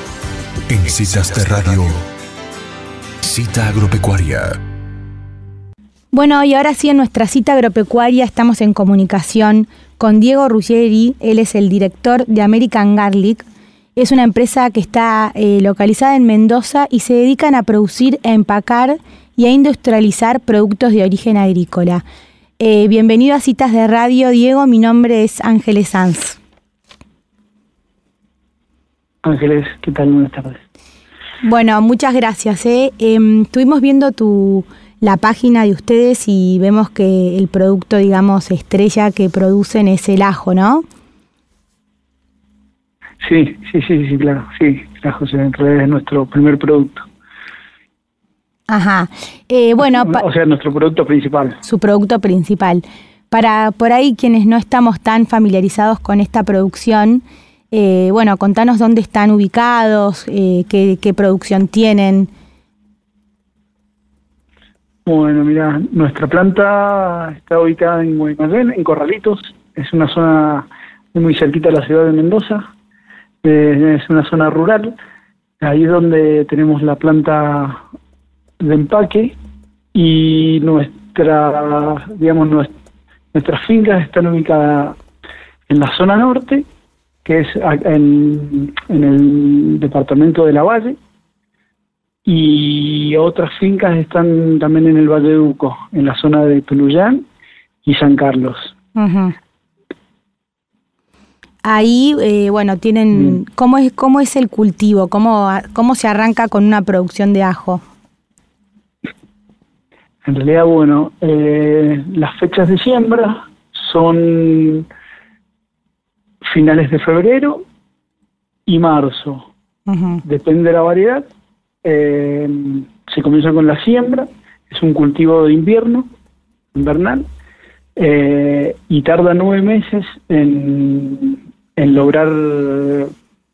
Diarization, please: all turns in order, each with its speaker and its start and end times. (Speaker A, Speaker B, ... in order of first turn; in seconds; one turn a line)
Speaker A: 0.7-2.1
Speaker A: 3.2-4.6
Speaker B: 6.1-22.0
Speaker B: 22.6-26.4
Speaker C: 29.2-30.6
Speaker B: 31.4-40.8
Speaker C: 43.2-47.1
Speaker B: 48.7-50.2
Speaker C: 49.8-51.6
Speaker B: 51.6-62.3
Speaker C: 65.0-72.7
Speaker C: 73.4-75.0
Speaker C: 75.6-77.8
Speaker C: 78.6-79.3
Speaker C: 79.9-82.7
Speaker C: 83.3-85.0
Speaker C: 85.7-86.7
Speaker C: 87.2-91.0
Speaker C: 92.2-97.2
Speaker C: 97.8-98.7
Speaker B: 99.0-99.3
Speaker B: 101.6-107.8
Speaker C: 110.2-114.9
Speaker C: 116.4-117.6
Speaker C: 118.7-119.5
Speaker B: 119.9-120.2
Speaker C: 120.2-121.3
Speaker C: 121.8-126.1
Speaker C: 126.7-127.2
Speaker C: 128.0-133.1